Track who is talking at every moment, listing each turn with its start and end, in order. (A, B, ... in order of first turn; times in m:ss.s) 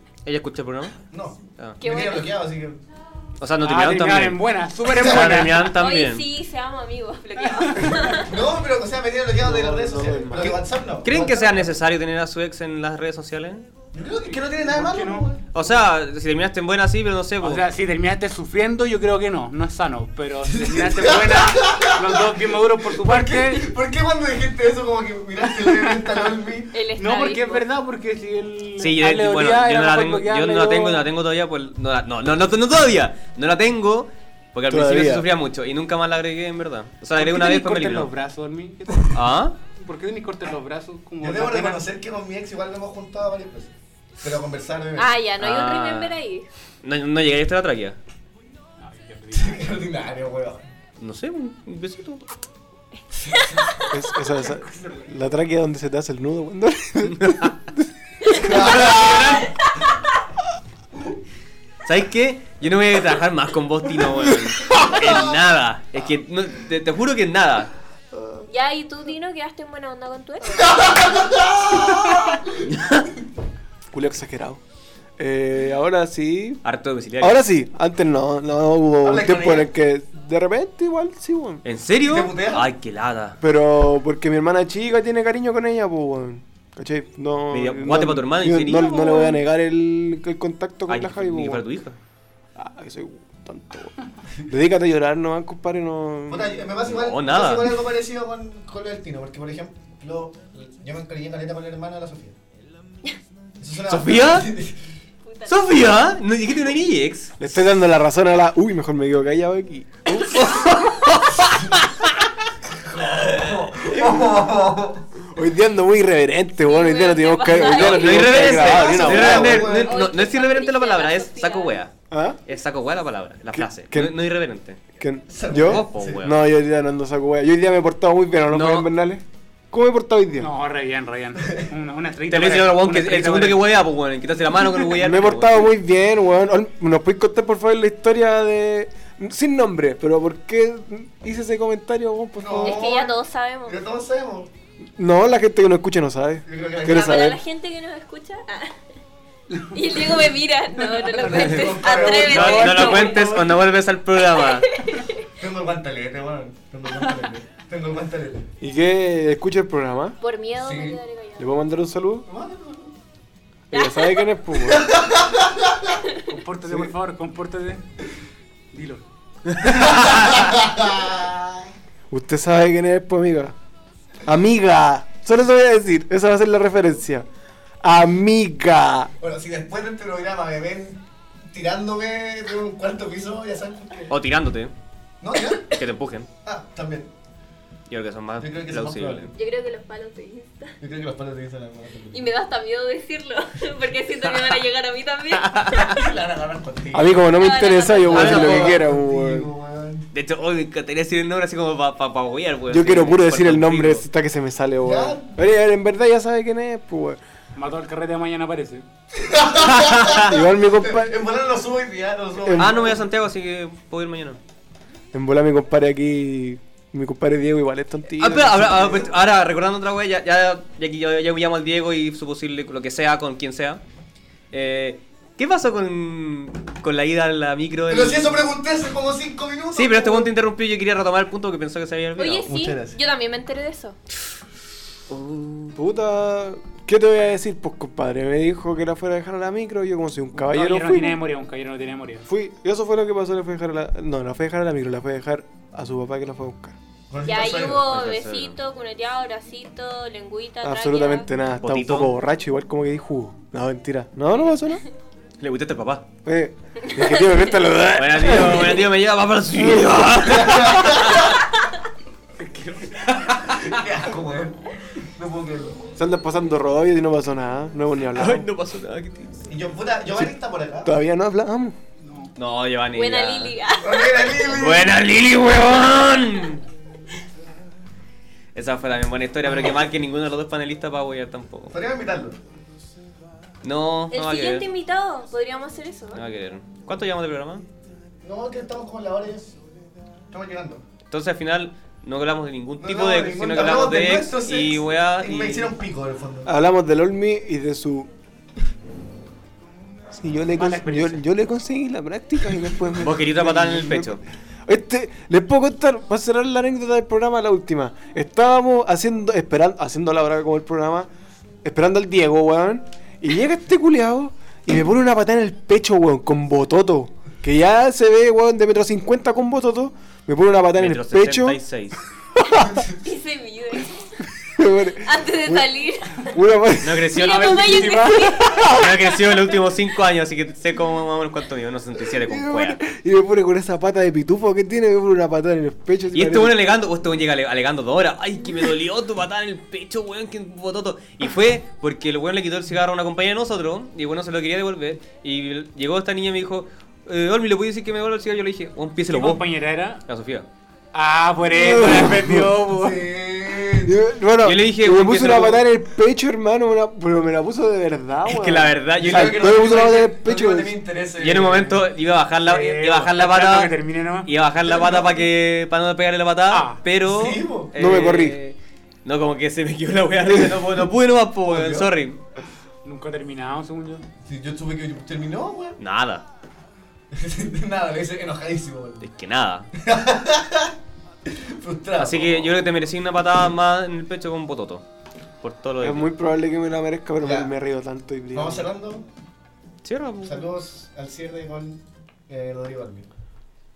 0:00.2-0:01.0 A
0:01.1-0:02.8 B
0:01.8-0:02.3 C
0:03.4-0:06.2 A
0:03.6-0:05.7 D
0:04.9-0:05.5 B
0:05.6-0:08.3 C
0:07.4-0:08.0 D
0:08.2-0:11.7 B
0:09.4-0:10.6 E
0:11.0-0:13.7 A
0:13.9-0:15.4 B
0:14.3-0:15.3 D
0:15.5-0:17.6 A
0:17.4-0:23.7 D
0:20.5-0:22.3 B
0:22.9-0:26.7 B
0:26.7-0:27.6 C
0:27.0-0:31.1 D
0:28.8-0:38.1 A
0:34.7-0:35.2 E
0:37.2-0:41.9 D
0:39.1-0:39.6 A
0:41.2-0:45.1 B
0:45.0-0:46.5 C
0:45.4-0:46.2 A
0:46.8-0:48.0 A
0:48.8-0:49.9 D
0:49.3-0:50.6 B
0:51.0-0:52.2 A
0:53.2-0:53.6 B
0:53.3-0:53.8 C
0:53.9-0:58.9 E
0:57.1-0:57.5 A
0:58.4-0:59.5 A
0:58.4-0:59.5 B
1:01.8-1:07.7 A
1:04.7-1:05.2 B
1:08.5-1:10.8 C
1:10.5-1:12.6 B
1:12.6-1:13.1 A
1:13.9-1:14.6 E
1:15.2-1:16.6 E
1:16.6-1:17.4 A
1:17.2-1:21.6 E
1:19.0-1:19.7 B
1:21.6-1:23.4 A
1:22.0-1:22.7 B
1:23.4-1:31.6 E
1:27.5-1:29.4 A
1:30.9-1:32.0 A
1:32.5-1:33.9 E
1:34.5-1:36.6 E
1:36.3-1:42.4 B
1:36.8-1:37.8 A
1:43.6-1:44.8 B
1:43.9-1:44.5 A
1:45.2-1:45.9 C
1:45.5-1:47.4 A
1:47.4-1:50.6 E
1:50.2-1:51.6 A
1:50.4-1:50.6 C
1:52.7-1:55.0 B
1:55.3-1:59.7 E
1:56.6-1:58.3 C
1:57.5-2:01.9 A
1:58.2-2:00.0 B
1:59.6-2:01.8 C
2:02.1-2:02.4 E
2:02.5-2:04.8 A
2:03.5-2:04.2 E
2:05.0-2:10.5 E
2:05.3-2:06.2 B
2:05.5-2:06.4 A
2:08.5-2:08.9 A
2:10.4-2:13.7 D
2:12.3-2:15.7 A
2:15.0-2:22.9 E
2:22.4-2:24.5 B
2:22.6-2:23.8 C
2:25.0-2:27.4 E
2:26.4-2:27.2 B
2:26.8-2:28.8 C
2:29.5-2:30.2 D
2:29.7-2:33.4 C
2:31.0-2:31.8 D
2:31.1-2:33.6 B
2:31.3-2:34.7 A
2:32.5-2:33.1 D
2:34.4-2:35.2 C
2:35.4-2:38.5 B
2:38.6-2:40.2 E
2:40.2-2:41.5 C
2:40.6-2:41.0 B
2:41.4-2:42.3 E
2:42.2-2:42.9 B
2:43.7-2:44.3 C
2:43.7-2:44.9 E
2:44.6-2:45.9 B
2:46.3-2:47.8 D
2:48.7-2:49.0 D
2:49.5-2:50.4 A
2:49.6-2:51.7 B
2:52.1-2:53.5 E
2:54.2-2:57.3 E
2:57.8-2:59.1 E
2:59.2-3:04.1 B
3:04.1-3:04.7 A
3:05.2-3:05.8 B
3:05.7-3:06.3 A
3:06.4-3:07.1 B
3:07.9-3:09.3 A
3:08.4-3:09.3 B
3:09.4-3:10.7 C
3:10.8-3:12.3 B
3:12.1-3:15.9 C
3:15.3-3:16.0 A
3:15.9-3:17.2 B
3:16.9-3:19.5 E
3:17.3-3:18.6 C
3:18.1-3:20.1 B
3:18.1-3:18.8 A
3:20.1-3:24.0 A
3:22.7-3:27.2 E
3:24.8-3:25.3 B
3:27.6-3:28.8 D
3:29.1-3:33.0 B
3:29.6-3:30.4 A
3:30.2-3:31.2 E
3:32.4-3:32.9 E
3:32.5-3:34.4 A
3:35.1-3:39.1 E
3:38.1-3:43.8 A
3:44.5-3:48.5 A
3:47.9-3:50.3 B
3:49.7-3:52.5 A
3:52.2-3:54.0 C
3:52.4-3:53.0 B
3:55.1-3:55.8 A
3:55.7-4:01.2 E
4:00.3-4:02.3 D
4:02.2-4:06.7 E
4:07.1-4:07.9 B
4:07.2-4:11.3 C
4:07.7-4:08.6 A
4:10.6-4:14.8 E
4:11.6-4:12.1 A
4:15.4-4:16.1 A
4:16.2-4:18.9 E
4:16.9-4:17.2 C
4:17.9-4:21.4 A
4:19.5-4:20.1 E
4:20.2-4:21.4 B
4:22.4-4:23.0 D
4:23.1-4:23.6 A
4:23.5-4:25.8 B
4:26.0-4:28.4 E
4:28.1-4:29.4 A
4:29.5-4:30.9 B
4:30.8-4:31.8 E
4:32.0-4:32.3 D
4:32.4-4:33.6 A
4:32.9-4:34.2 C
4:33.8-4:34.9 B
4:34.4-4:36.6 A
4:38.5-4:41.7 A
4:41.7-4:42.4 B
4:43.6-4:44.6 A
4:44.1-4:46.2 C
4:46.1-4:47.6 A
4:48.2-4:49.5 B
4:50.3-4:50.8 B
4:51.1-4:55.7 A
4:52.8-4:56.5 B
4:56.4-4:58.1 E
5:00.1-5:11.1 E
5:00.6-5:01.2 D
5:02.9-5:04.2 A
5:11.6-5:21.6 E
5:20.7-5:22.0 A
5:22.4-5:22.9 E
5:23.0-5:24.1 C
5:24.4-5:25.6 E
5:24.8-5:26.3 C
5:26.2-5:29.3 E
5:26.8-5:27.8 A
5:27.1-5:28.7 C
5:27.2-5:28.2 D
5:28.6-5:32.8 A
5:32.1-5:36.6 E
5:36.1-5:49.4 A
5:49.1-5:50.0 D
5:50.0-5:50.5 A
5:50.9-5:53.1 D
5:51.5-5:52.5 E
5:52.6-5:53.9 B
5:53.8-6:00.8 E
5:54.4-5:55.6 A
5:58.2-5:59.8 A
5:59.0-6:01.8 B
6:01.2-6:12.2 A
6:02.4-6:04.3 D
6:04.6-6:05.3 B
6:06.5-6:06.8 D
6:07.0-6:07.7 B
6:07.8-6:08.4 E
6:10.2-6:10.6 E
6:11.4-6:11.9 B
6:12.8-6:14.0 D
6:14.2-6:15.8 B
6:15.8-6:16.2 A
6:17.1-6:19.0 B
6:19.0-6:19.7 A
6:19.8-6:20.7 B
6:21.2-6:22.6 B
6:22.0-6:24.8 A
6:25.4-6:26.1 A
6:25.8-6:28.7 E
6:27.2-6:27.5 B
6:28.3-6:29.1 B
6:29.8-6:30.5 A
6:30.2-6:33.1 B